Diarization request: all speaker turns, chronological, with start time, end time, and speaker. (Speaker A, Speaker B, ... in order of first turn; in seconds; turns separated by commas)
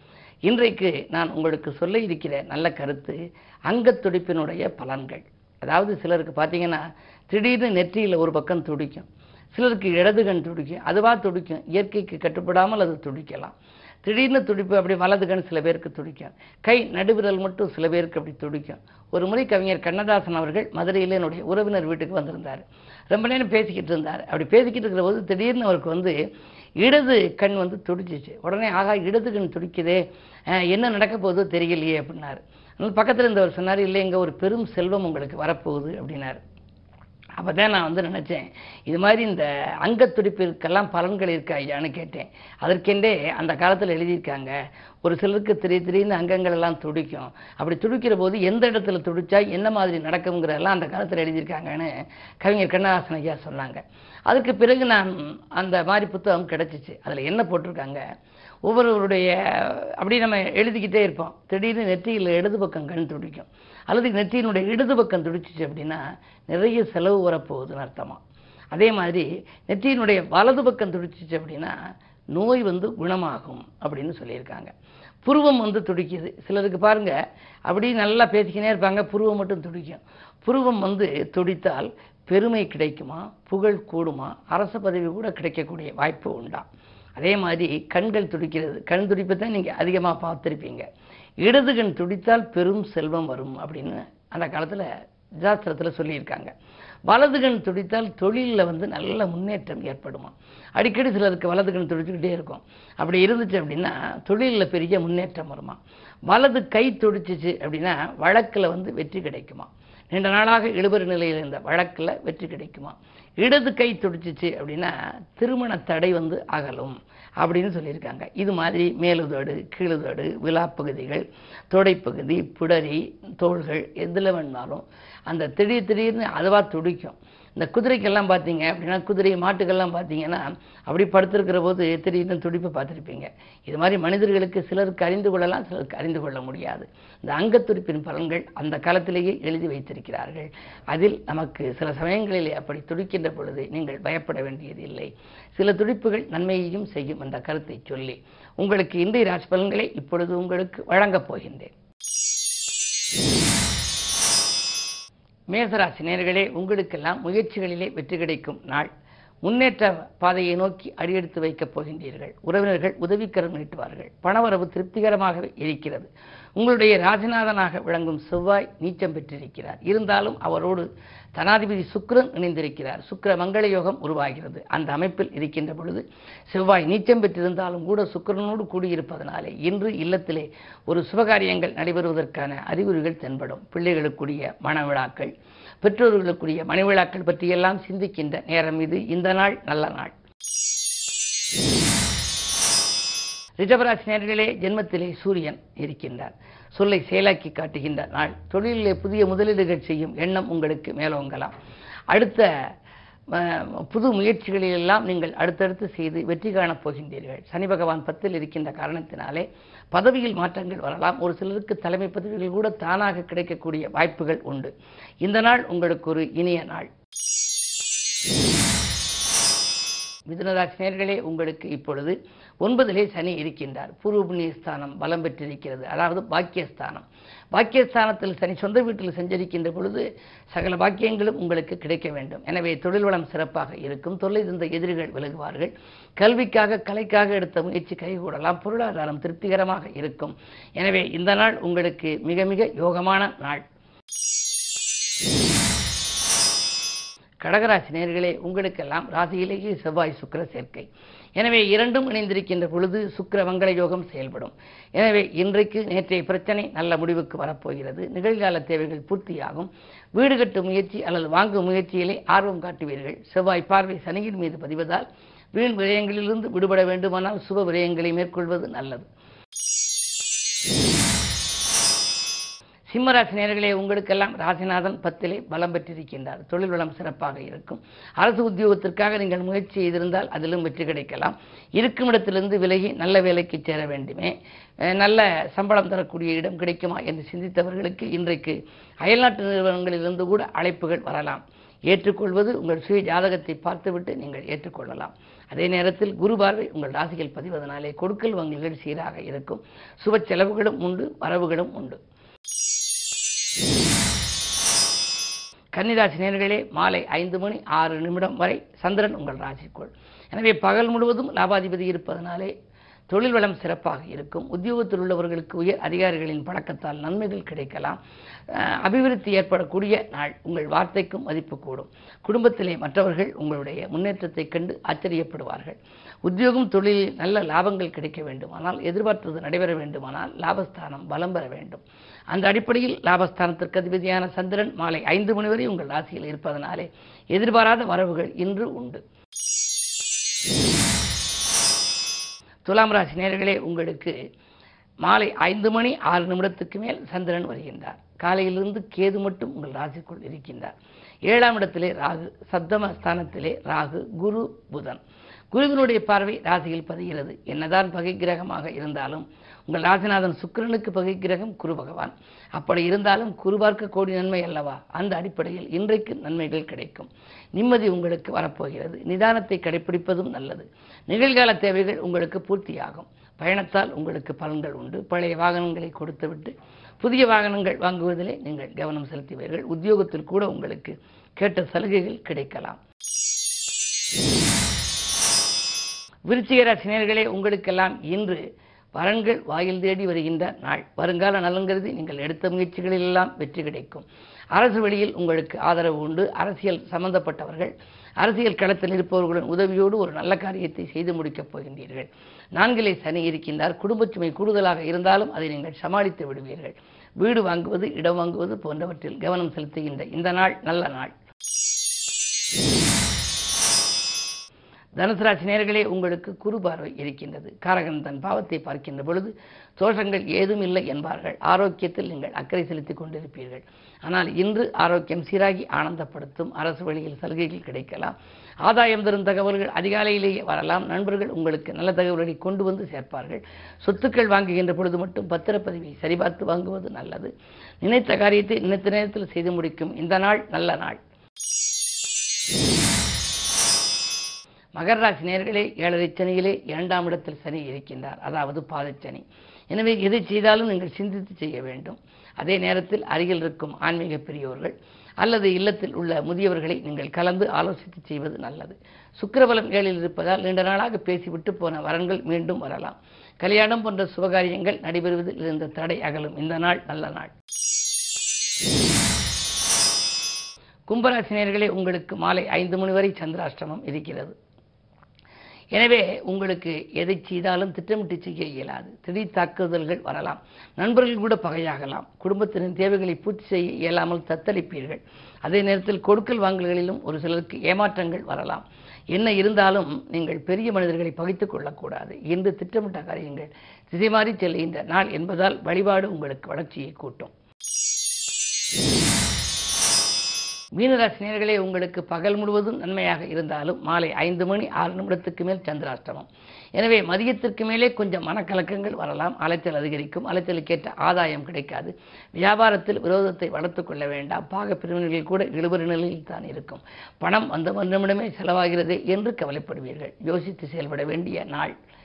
Speaker A: 0.5-3.2, Speaker A: 3.7-26.1, Speaker A: 26.8-30.0, Speaker A: 30.5-36.4, Speaker A: 37.4-58.0, Speaker A: 58.6-68.2, Speaker A: 68.7-71.8, Speaker A: 72.3-74.7, Speaker A: 75.2-77.2, Speaker A: 77.7-90.9, Speaker A: 91.4-94.9, Speaker A: 95.4-96.5, Speaker A: 97.1-105.8, Speaker A: 106.3-151.7, Speaker A: 155.5-158.9, Speaker A: 159.4-190.2, Speaker A: 193.6-201.5, Speaker A: 202.1-202.5, Speaker A: 203.3-216.9, Speaker A: 220.3-243.7, Speaker A: 247.4-269.1, Speaker A: 272.9-284.4, Speaker A: 284.9-302.0, Speaker A: 305.7-312.5, Speaker A: 313.1-318.0, Speaker A: 318.5-339.0, Speaker A: 342.6-344.1, Speaker A: 345.0-350.7, Speaker A: 351.3-355.0, Speaker A: 355.5-382.8, Speaker A: 386.3-388.4, Speaker A: 388.9-411.1, Speaker A: 415.0-441.0, Speaker A: 444.8-467.3, Speaker A: 470.9-474.3, Speaker A: 475.7-497.3, Speaker A: 500.8-521.8